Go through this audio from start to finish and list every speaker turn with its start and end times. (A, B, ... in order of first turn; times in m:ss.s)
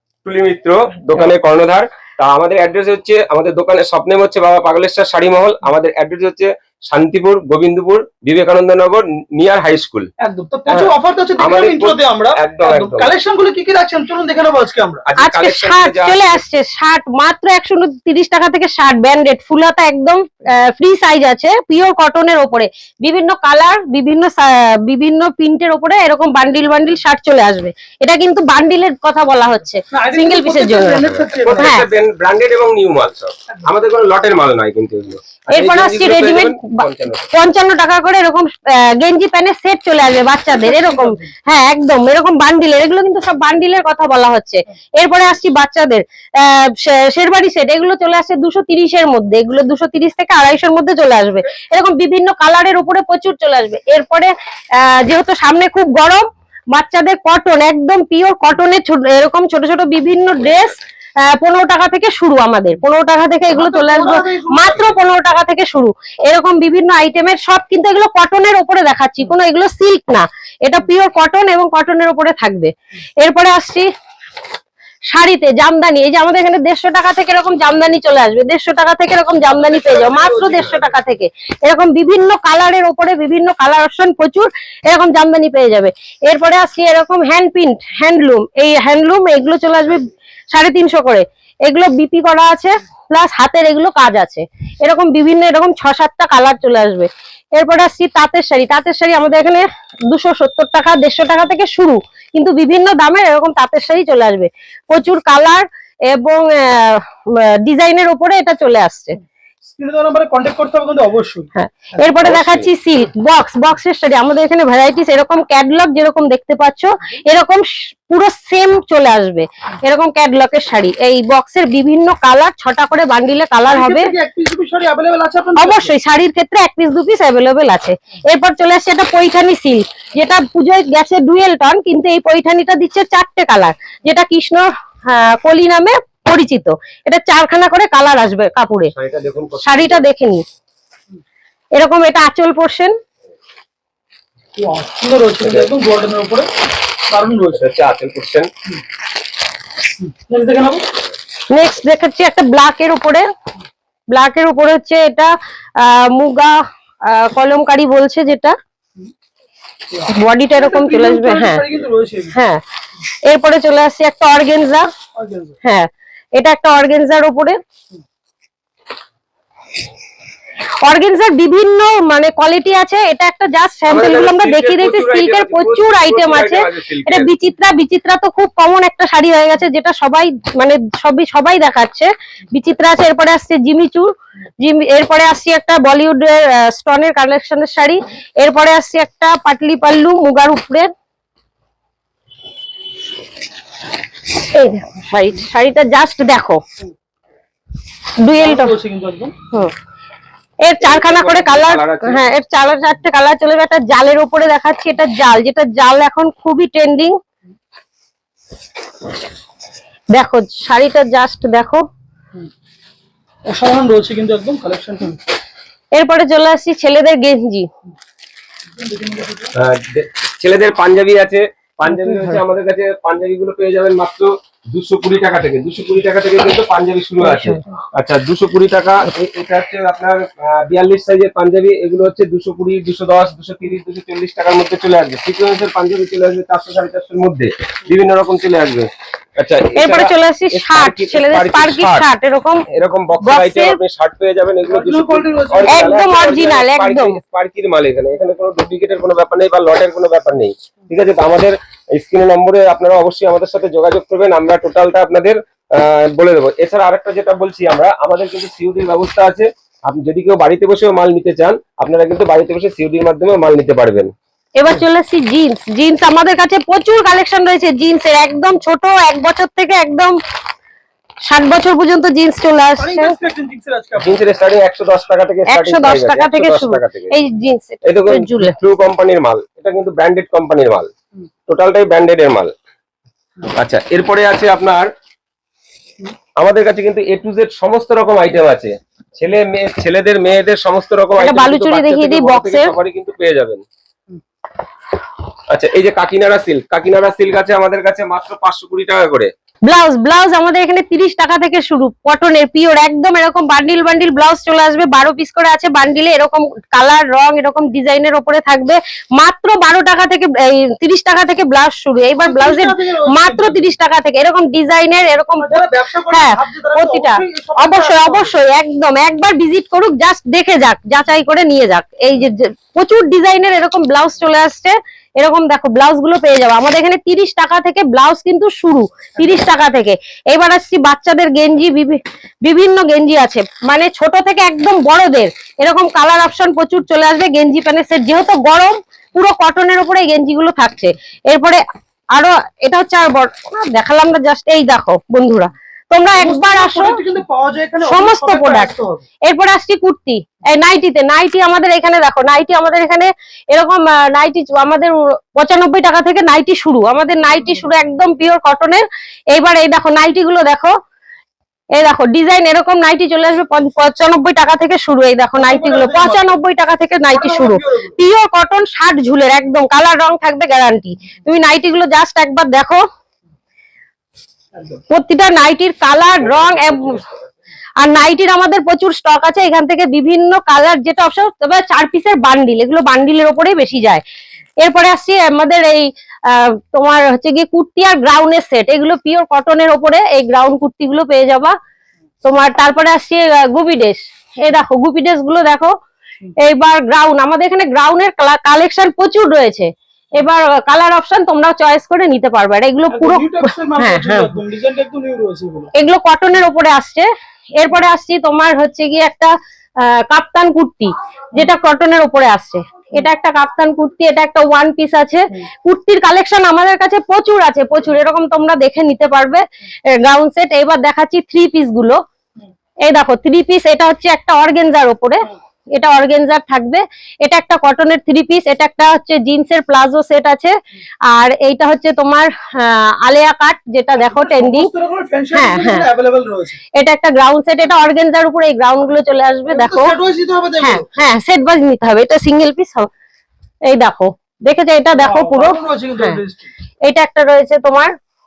0:00.2-0:10.1 A
0:10.2-0:15.0 B
0:10.7-0:13.1 A
0:15.1-0:16.4 A
0:15.2-0:31.8 C
0:29.9-0:31.8 B
0:31.2-0:37.3 A
0:35.5-1:13.9 C
0:40.6-0:41.3 B
1:03.5-1:05.0 B
1:15.1-1:49.2 C
1:19.4-1:21.0 B
1:49.8-1:51.5 B
1:51.6-2:04.1 C
1:52.1-1:52.7 A
2:03.7-2:05.9 B
2:05.6-2:18.9 C
2:18.9-2:20.0 A
2:19.6-2:20.4 C
2:21.7-2:23.0 C
2:24.6-2:26.5 B
2:25.4-2:25.7 A
2:27.1-2:27.6 B
2:27.5-2:28.5 A
2:30.0-2:30.8 B
2:31.5-2:33.3 C
2:34.1-2:36.6 C
2:37.1-2:38.6 C
2:39.9-2:42.4 B
2:40.1-2:41.6 C
2:42.3-2:42.6 C
2:43.2-2:44.9 C
2:45.2-2:45.6 B
2:45.6-2:47.6 C
2:50.8-3:04.1 C
2:53.9-2:57.3 A
3:04.6-3:10.9 C
3:14.5-3:16.6 C
3:18.2-3:18.8 C
3:18.4-3:19.4 B
3:20.6-3:27.2 C
3:20.8-3:22.2 A
3:30.2-3:31.8 C
3:33.5-3:35.2 B
3:35.9-3:37.7 C
3:38.7-3:39.5 B
3:39.5-4:02.1 A
3:41.9-3:42.4 C
3:47.2-3:47.6 C
3:59.8-4:02.7 C
4:02.7-4:24.1 A
4:03.2-4:03.8 C
4:04.7-4:06.0 B
4:05.7-4:07.2 C
4:24.6-4:30.2 C
4:31.3-4:33.2 C
4:32.8-4:34.2 B
4:34.0-4:37.1 A
4:35.5-4:38.6 C
4:37.8-4:40.9 A
4:41.5-4:42.5 A
4:43.5-4:44.9 A
4:46.4-4:53.6 A
4:51.2-4:52.7 C
4:55.5-4:59.3 A
4:59.7-5:41.6 C
5:12.2-5:13.6 B
5:15.4-5:18.3 B
5:42.2-5:47.0 C
5:46.2-5:49.0 B
5:47.8-5:48.7 C
5:49.3-6:00.7 C
6:01.8-6:12.8 C
6:05.3-6:06.4 B
6:07.1-6:08.0 B
6:14.6-6:14.8 B
6:14.9-6:17.0 C
6:17.8-6:24.0 C
6:24.6-6:31.6 C
6:32.2-6:35.7 C
6:36.4-6:44.3 C
6:42.9-6:45.7 B
6:45.8-6:59.4 C
7:00.0-7:02.0 C
7:02.9-7:10.5 C
7:11.1-7:14.7 C
7:14.0-7:16.6 B
7:15.3-7:15.8 C
7:16.8-7:20.0 C
7:19.5-7:20.9 B
7:20.6-7:22.9 C
7:23.7-7:26.2 C
7:25.0-7:26.5 B
7:26.8-7:27.9 C